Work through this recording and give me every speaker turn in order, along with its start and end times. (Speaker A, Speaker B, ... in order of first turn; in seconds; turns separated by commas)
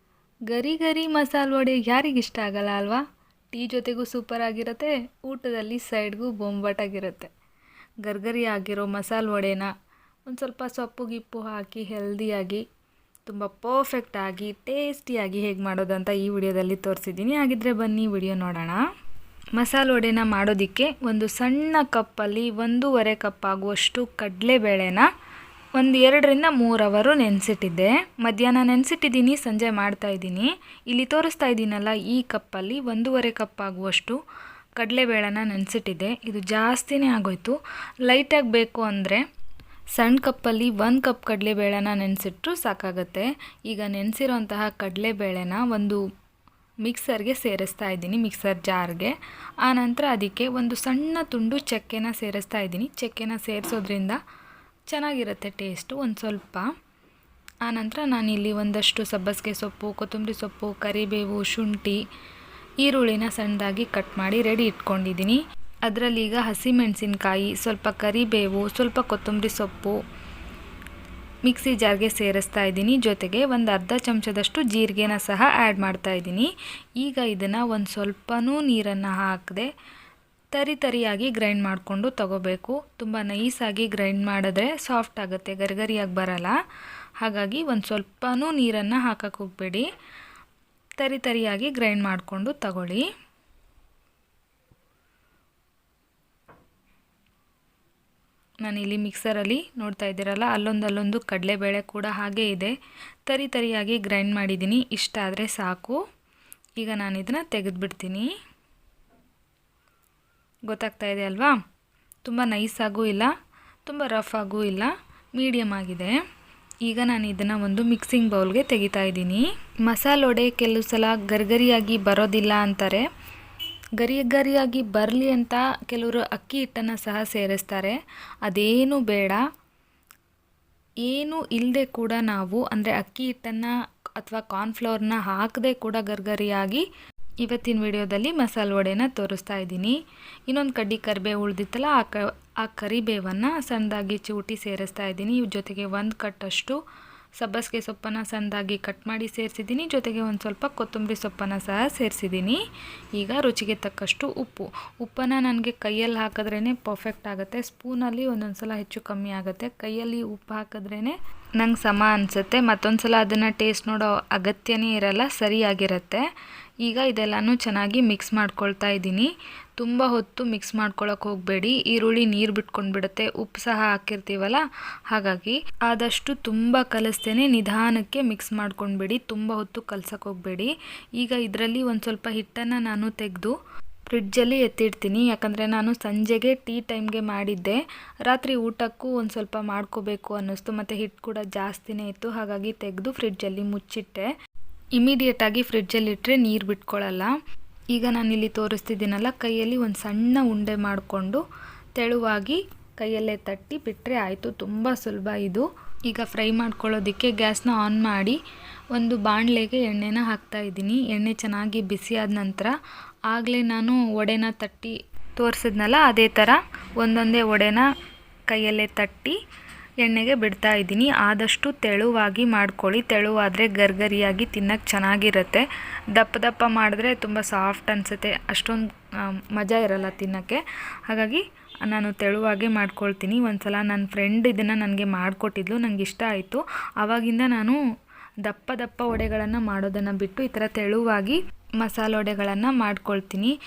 Speaker A: 0.5-7.3, Speaker A: 8.0-9.7, Speaker A: 10.3-12.6, Speaker A: 13.2-18.8, Speaker A: 19.6-25.1, Speaker A: 25.8-34.2, Speaker A: 34.8-37.5, Speaker A: 38.1-39.2, Speaker A: 40.0-46.0, Speaker A: 46.8-54.2, Speaker A: 54.9-56.7, Speaker A: 57.6-62.0, Speaker A: 62.8-70.0, Speaker A: 71.5-79.7, Speaker A: 80.5-86.5, Speaker A: 87.2-89.9, Speaker A: 91.0-93.1, Speaker A: 98.6-102.7, Speaker A: 103.3-106.0, Speaker A: 106.8-108.3, Speaker A: 110.7-111.6, Speaker A: 112.2-113.3, Speaker A: 113.9-116.1, Speaker A: 116.9-123.0, Speaker A: 124.0-129.4, Speaker A: 131.1-136.8, Speaker A: 137.4-139.9, Speaker A: 140.5-146.8, Speaker A: 147.4-152.6, Speaker A: 153.2-166.2, Speaker A: 166.8-183.5, Speaker A: 184.1-194.3, Speaker A: 195.0-197.3, Speaker A: 197.9-201.4, Speaker A: 202.0-208.4, Speaker A: 208.9-212.7, Speaker A: 213.3-217.8, Speaker A: 218.5-219.4, Speaker A: 220.0-225.6, Speaker A: 226.1-228.8, Speaker A: 229.3-237.8, Speaker A: 238.4-243.5